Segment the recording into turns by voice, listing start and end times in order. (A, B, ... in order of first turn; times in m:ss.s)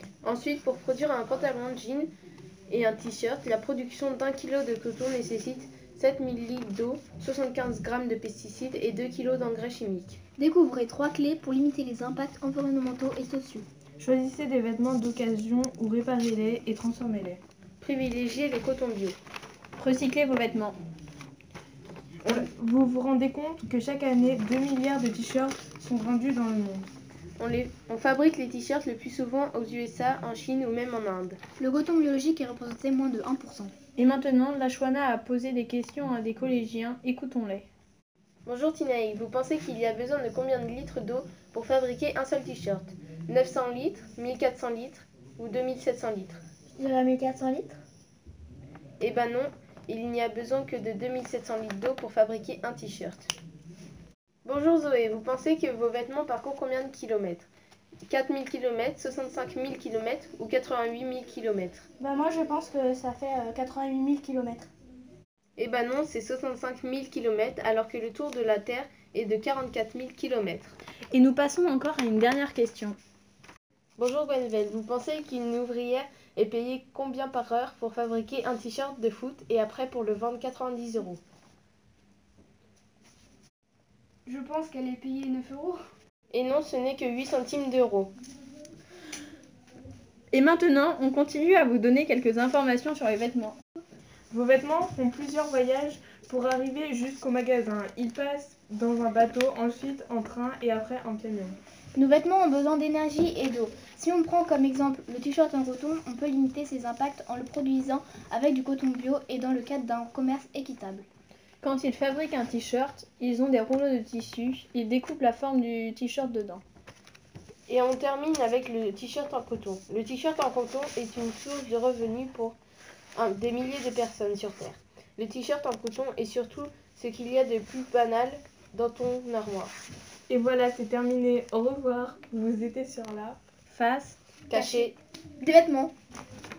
0:00.2-0:02.1 A
0:02.7-0:10.2 A
0:10.4-0:13.7 B
0:14.0-0:17.4 C
0:17.8-0:19.2 A
0:19.8-0:20.8 D
0:22.2-0:26.9 C
0:27.4-0:31.4 A
0:31.6-0:33.7 B
0:34.0-0:37.7 D
0:38.4-0:46.4 A
0:46.8-0:47.8 E
0:49.0-0:53.3 A
0:54.4-0:57.5 A
0:58.1-1:01.8 A
1:02.0-1:04.7 E
1:05.6-1:10.8 A
1:11.1-1:13.0 D
1:14.0-1:21.2 A
1:24.2-1:25.8 E
1:26.3-1:28.1 A
1:30.3-1:33.6 D
1:34.3-1:41.6 C
1:42.0-1:51.0 B
1:51.6-1:56.6 D
1:57.7-2:02.6 A
2:03.1-2:09.7 A
2:10.3-2:13.4 C
2:13.7-2:14.2 D
2:14.5-2:15.0 A
2:14.5-2:15.9 B